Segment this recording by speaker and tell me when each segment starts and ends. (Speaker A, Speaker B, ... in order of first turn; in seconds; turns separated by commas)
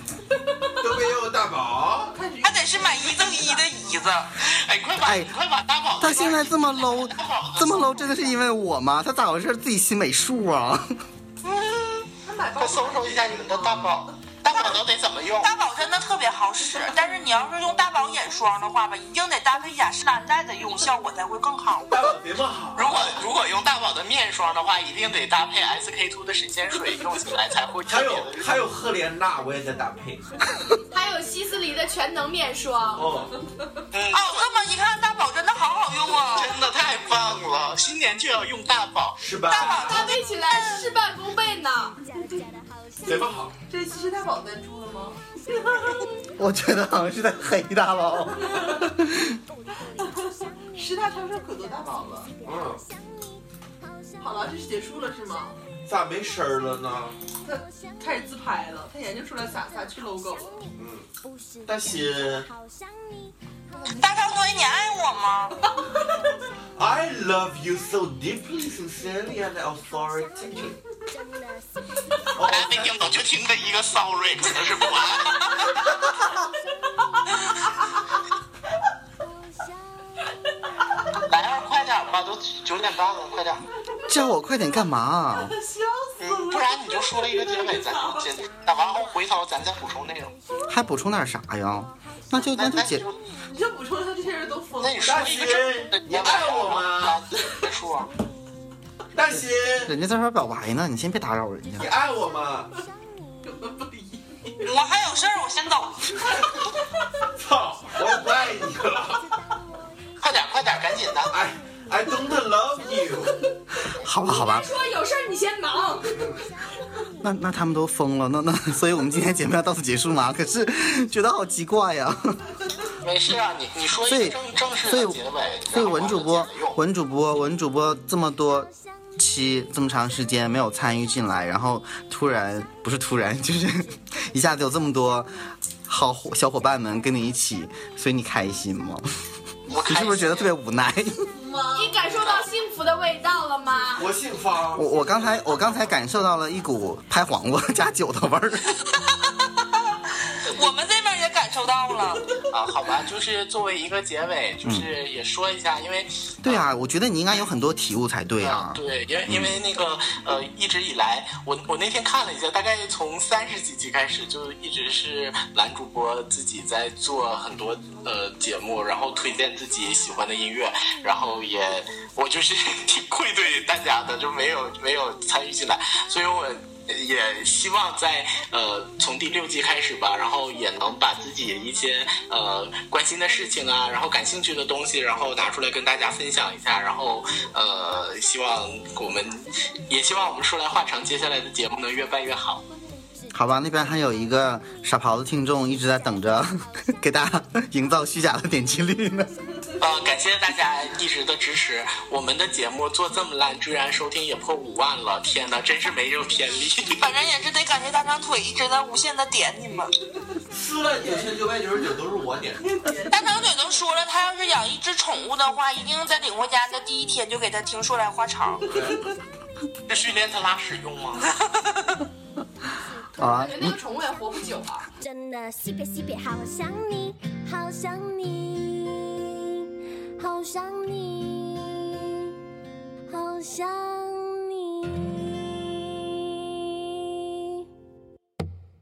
Speaker A: 0.8-2.1, Speaker B: 2.0-4.0, Speaker C: 2.4-4.3, Speaker D: 4.4-8.1, Speaker E: 5.0-5.3, Speaker E: 6.0-11.0, Speaker D: 11.4-12.1, Speaker B: 12.2-14.0, Speaker D: 12.6-15.6, Speaker C: 15.4-22.0, Speaker A: 21.9-23.2, Speaker D: 22.8-28.6, Speaker A: 27.9-30.3, Speaker F: 30.9-33.1, Speaker A: 33.0-33.4, Speaker D: 33.9-34.5, Speaker C: 34.1-36.6, Speaker D: 36.2-39.2, Speaker A: 39.2-40.1, Speaker C: 39.4-40.9, Speaker F: 39.7-42.0, Speaker A: 43.0-43.5, Speaker B: 43.7-45.9, Speaker E: 46.4-49.3, Speaker B: 48.5-48.9, Speaker B: 50.2-52.3, Speaker A: 52.4-52.8, Speaker B: 54.2-55.6, Speaker A: 55.9-57.2, Speaker B: 57.4-60.6, Speaker A: 60.7-61.1, Speaker A: 61.7-62.5, Speaker B: 63.7-64.6, Speaker C: 64.0-65.6, Speaker B: 65.6-66.3, Speaker A: 66.8-70.8, Speaker A: 72.3-73.1, Speaker D: 72.4-76.0, Speaker D: 81.3-83.7, Speaker B: 83.9-84.2, Speaker E: 84.1-85.5, Speaker B: 85.3-88.3, Speaker D: 86.2-90.3, Speaker E: 90.7-93.0, Speaker D: 92.4-93.2, Speaker B: 93.5-95.2, Speaker D: 94.8-98.1, Speaker A: 95.0-97.2, Speaker A: 99.2-99.9, Speaker E: 99.8-101.9, Speaker A: 101.8-102.7, Speaker B: 103.4-104.7, Speaker C: 104.6-106.1, Speaker A: 107.4-109.2, Speaker D: 110.2-111.3, Speaker A: 111.3-113.4, Speaker E: 114.0-114.7, Speaker F: 114.3-116.4, Speaker E: 117.2-122.4, Speaker D: 123.0-126.8, Speaker E: 124.1-135.3, Speaker E: 135.9-139.0, Speaker D: 139.7-140.5, Speaker E: 139.7-141.3, Speaker B: 141.3-142.0, Speaker F: 141.8-144.1, Speaker D: 142.1-142.5, Speaker A: 143.9-144.9, Speaker E: 144.8-148.8, Speaker C: 150.4-152.4, Speaker D: 152.5-156.7, Speaker E: 154.6-154.9, Speaker E: 156.4-159.6, Speaker D: 158.4-192.6, Speaker E: 193.3-199.3, Speaker D: 199.8-207.0, Speaker C: 206.9-209.9, Speaker A: 210.5-212.6, Speaker B: 211.0-211.3, Speaker B: 212.6-213.4, Speaker C: 213.1-218.7, Speaker A: 218.7-219.0, Speaker B: 218.7-219.0, Speaker D: 219.9-221.2, Speaker E: 223.2-223.8, Speaker F: 223.2-224.9, Speaker G: 225.0-229.7, Speaker G: 230.2-232.3, Speaker G: 233.1-237.7